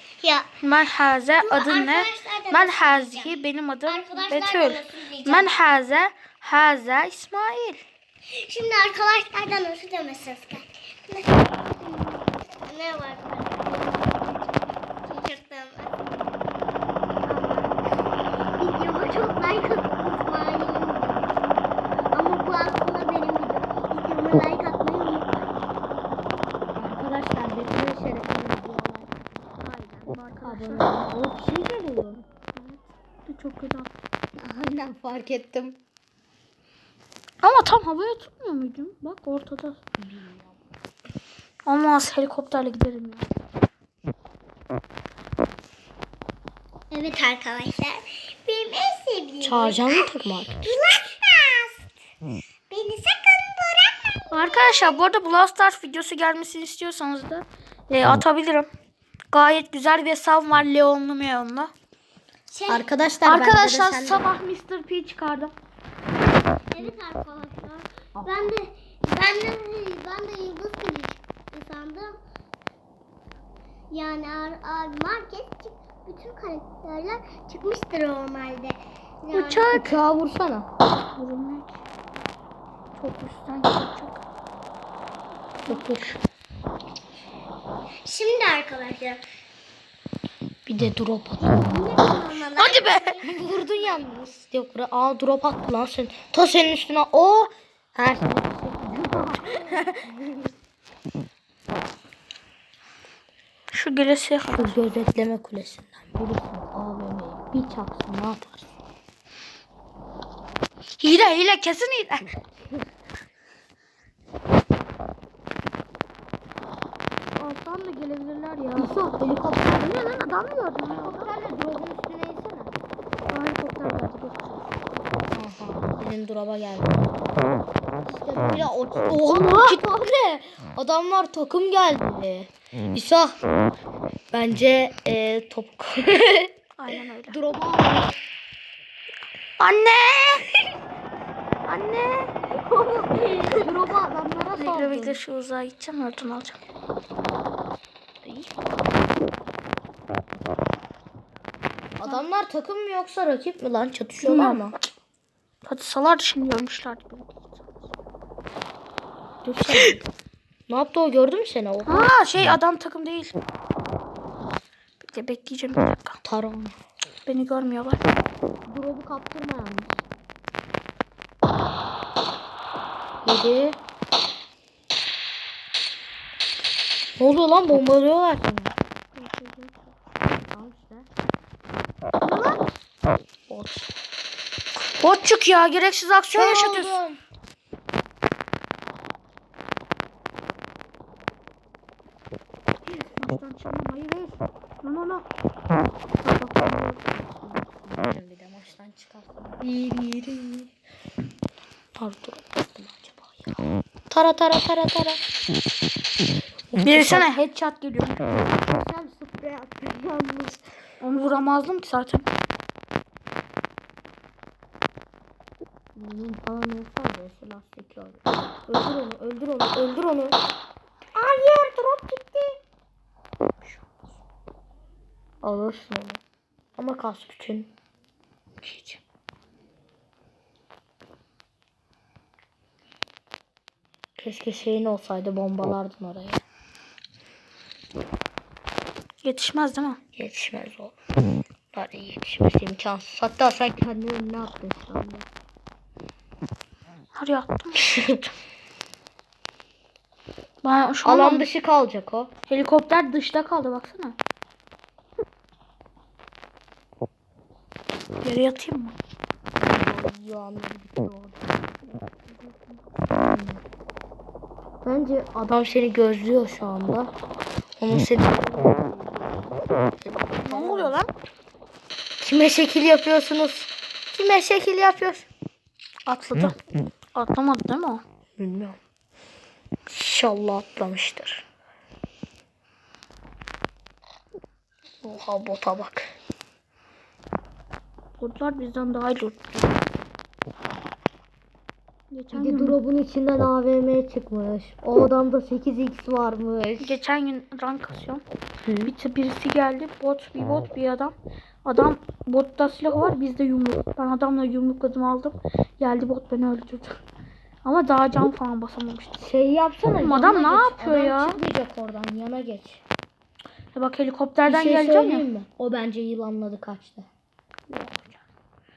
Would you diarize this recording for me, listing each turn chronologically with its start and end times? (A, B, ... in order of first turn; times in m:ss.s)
0:00.2-0:00.5 A
0:00.6-0:07.8 B
0:01.4-0:05.5 A
0:08.3-0:16.2 A
0:17.3-0:17.7 A
0:18.6-0:21.5 A
0:22.1-0:25.6 A
0:26.7-0:29.2 C
0:29.6-0:30.9 B
0:30.4-0:32.2 C
0:32.6-0:33.9 B
0:34.4-0:35.8 C
0:37.4-0:39.8 B
0:40.0-0:40.6 C
0:41.7-0:43.3 B
0:46.9-0:50.1 A
0:49.4-0:50.7 C
0:50.6-0:51.8 A
0:52.7-0:55.0 A
0:54.3-0:58.7 B
0:59.3-1:01.7 B
1:02.5-1:02.9 A
1:02.7-1:04.3 C
1:03.2-1:05.5 B
1:06.6-1:12.2 A
1:08.2-1:08.6 C
1:13.9-1:19.9 A
1:19.3-1:19.8 B
1:19.7-1:20.7 C
1:21.1-1:21.8 B
1:23.0-1:24.2 B
1:25.7-1:26.2 C
1:28.0-1:29.2 A
1:30.7-1:31.6 C
1:31.4-1:34.1 A
1:32.6-1:33.2 B
1:33.2-1:40.5 C
1:43.7-1:44.8 B
1:44.5-1:48.6 C
1:51.0-1:52.3 B
1:57.4-1:59.0 B
1:58.8-1:59.9 C
1:59.8-2:01.3 B
2:00.9-2:02.7 C
2:03.3-2:04.7 B
2:05.3-2:07.2 C
2:08.0-2:13.4 C
2:09.2-2:09.8 B
2:14.3-2:16.5 C
2:16.8-2:17.4 B
2:17.3-2:18.2 C
2:19.6-2:20.5 B
2:21.7-2:22.3 B
2:22.5-2:25.2 C
2:24.5-2:26.6 B
2:28.2-2:28.7 C
2:32.0-2:34.8 C
2:34.2-2:34.6 B
2:35.6-2:37.7 B
2:39.4-2:40.0 C
2:39.7-2:40.0 B
2:40.7-2:42.1 C
2:41.9-2:43.4 B
2:45.0-2:46.2 B
2:46.2-2:46.8 C
2:47.3-2:48.0 B
2:48.7-2:50.0 C
2:53.2-2:53.8 C
2:57.2-2:58.8 C
2:59.1-2:59.9 B
3:00.5-3:01.1 C
3:02.2-3:02.6 B
3:03.5-3:03.9 C
3:05.0-3:07.0 B
3:06.3-3:07.2 C
3:13.0-3:15.3 B
3:16.2-3:17.0 B
3:17.0-3:20.7 C
3:22.0-3:25.2 C
3:26.7-3:27.3 C
3:26.8-3:28.2 B
3:28.2-3:30.7 C
3:31.0-3:32.3 B
3:36.0-3:40.4 C
3:41.2-3:42.6 C
3:43.7-3:44.1 C
3:45.4-3:46.2 C
3:46.8-3:47.7 C
3:48.6-3:49.0 C
3:54.2-3:56.4 C
3:59.2-4:00.0 B
4:00.2-4:01.0 C
4:01.7-4:05.3 C
4:07.2-4:07.9 B
4:07.8-4:08.2 C
4:10.6-4:11.5 B
4:11.0-4:12.3 C
4:12.5-4:14.2 B
4:18.2-4:19.0 B
4:19.6-4:21.6 C
4:21.9-4:22.9 B
4:23.1-4:23.6 C
4:24.8-4:27.2 C
4:27.8-4:31.0 C
4:30.4-4:31.1 B
4:32.2-4:35.3 C
4:36.1-4:36.6 B
4:37.2-4:38.0 B
4:38.4-4:38.8 C
4:39.9-4:41.4 C
4:45.0-4:46.1 C
4:48.2-4:49.8 B
4:52.1-4:52.8 B
4:52.3-4:57.0 C
4:56.8-4:58.2 B
4:58.6-4:58.9 C
4:58.8-5:01.1 B
5:01.6-5:07.0 B
5:07.6-5:09.2 B
5:09.2-5:12.8 C
5:10.0-5:11.4 B
5:13.8-5:15.3 B
5:14.5-5:17.1 C
5:17.7-5:18.2 B